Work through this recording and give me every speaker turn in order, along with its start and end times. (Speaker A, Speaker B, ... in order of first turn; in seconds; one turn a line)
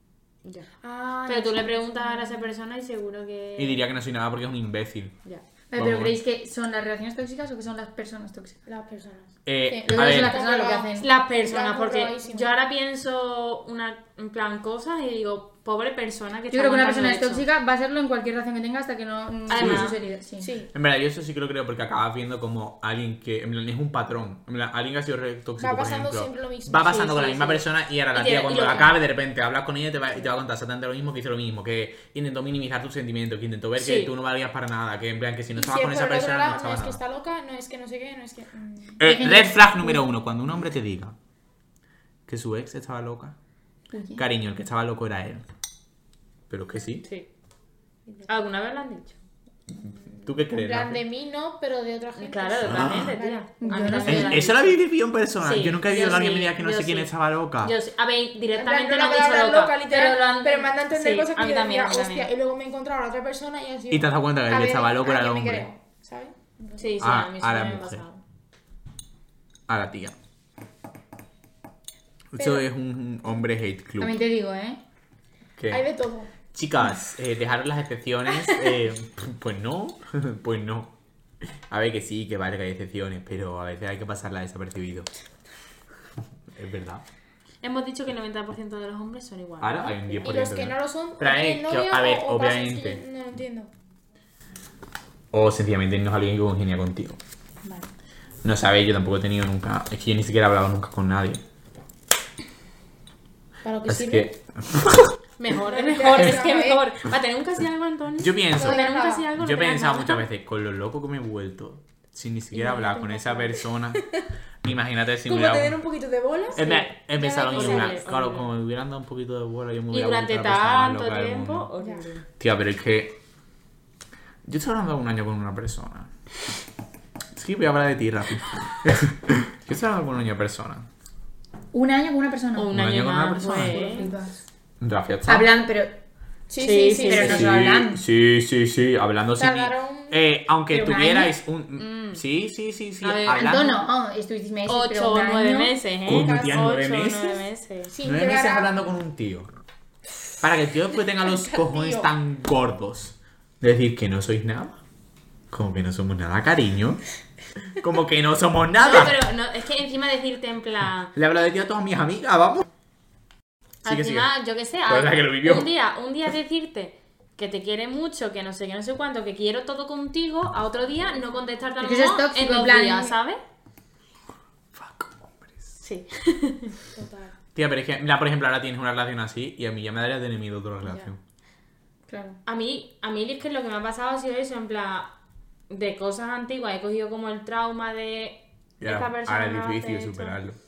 Speaker A: 0.8-2.5
Speaker B: 1.3-3.9
Speaker C: 3.6-5.1
Speaker D: 5.7-8.6
Speaker C: 5.7-6.2
Speaker A: 8.7-9.3
Speaker C: 9.4-10.4
Speaker D: 9.7-11.1
Speaker A: 9.9-12.5
Speaker B: 11.0-17.4
Speaker D: 16.5-20.5
Speaker B: 19.5-20.0
Speaker C: 19.6-19.9
Speaker A: 20.4-20.7
Speaker C: 20.7-37.0
Speaker A: 25.6-27.1
Speaker B: 26.9-28.9
Speaker B: 33.8-34.1
Speaker A: 35.5-39.0
Speaker C: 39.0-41.1
Speaker D: 39.0-40.0
Speaker C: 42.3-43.3
Speaker D: 43.9-44.2
Speaker C: 44.1-45.4
Speaker C: 46.5-47.0
Speaker B: 48.2-49.2
Speaker C: 49.7-51.0
Speaker A: 50.4-54.2
Speaker B: 52.2-54.8
Speaker C: 52.6-53.2
Speaker D: 53.6-54.5
Speaker C: 54.0-57.7
Speaker B: 55.4-57.1
Speaker B: 57.6-62.3
Speaker A: 58.5-67.0
Speaker C: 63.9-65.7
Speaker B: 66.8-68.2
Speaker C: 67.0-68.0
Speaker C: 69.7-70.1
Speaker C: 72.3-74.2
Speaker D: 74.0-74.8
Speaker C: 75.6-75.8
Speaker A: 75.7-76.3
Speaker C: 76.5-80.9
Speaker C: 81.7-85.1
Speaker C: 86.5-87.0
Speaker B: 87.6-90.3
Speaker C: 89.6-93.0
Speaker A: 90.2-93.7
Speaker C: 95.3-97.2
Speaker A: 97.6-97.9
Speaker C: 98.4-101.4
Speaker A: 103.6-104.3
Speaker C: 103.9-105.1
Speaker B: 105.4-110.2
Speaker A: 105.5-106.8
Speaker C: 108.2-108.8
Speaker A: 108.5-109.3
Speaker C: 109.3-114.0
Speaker A: 112.5-114.2
Speaker C: 114.6-115.8
Speaker A: 115.2-116.7
Speaker C: 116.5-121.7
Speaker B: 116.5-118.5
Speaker A: 117.2-117.9
Speaker B: 119.9-122.2
Speaker A: 121.8-122.0
Speaker C: 122.4-123.2
Speaker C: 124.5-126.1
Speaker C: 127.3-130.9
Speaker D: 131.7-132.7
Speaker B: 132.6-134.1
Speaker C: 132.7-133.9
Speaker D: 133.6-134.3
Speaker C: 134.8-135.5
Speaker D: 135.3-136.0
Speaker A: 136.5-137.4
Speaker B: 136.6-137.4
Speaker D: 136.9-138.0
Speaker C: 137.2-143.8
Speaker A: 139.4-140.2
Speaker D: 140.7-141.3
Speaker B: 141.8-142.2
Speaker B: 143.0-143.8
Speaker D: 143.3-145.8
Speaker B: 144.7-147.9
Speaker C: 146.1-147.4
Speaker A: 146.1-146.7
Speaker A: 147.9-148.8
Speaker C: 148.0-149.5
Speaker C: 150.4-154.8
Speaker A: 151.3-152.1
Speaker C: 155.5-157.0
Speaker C: 157.8-159.2
Speaker B: 158.8-161.1
Speaker C: 161.1-162.7
Speaker B: 163.8-173.4
Speaker C: 163.8-164.3
Speaker C: 164.9-165.7
Speaker D: 171.8-173.1
Speaker C: 174.7-175.8
Speaker B: 175.8-176.7
Speaker A: 176.9-177.3
Speaker C: 177.5-181.2
Speaker D: 182.1-182.4
Speaker B: 182.4-185.1
Speaker B: 185.7-190.4
Speaker C: 188.8-190.6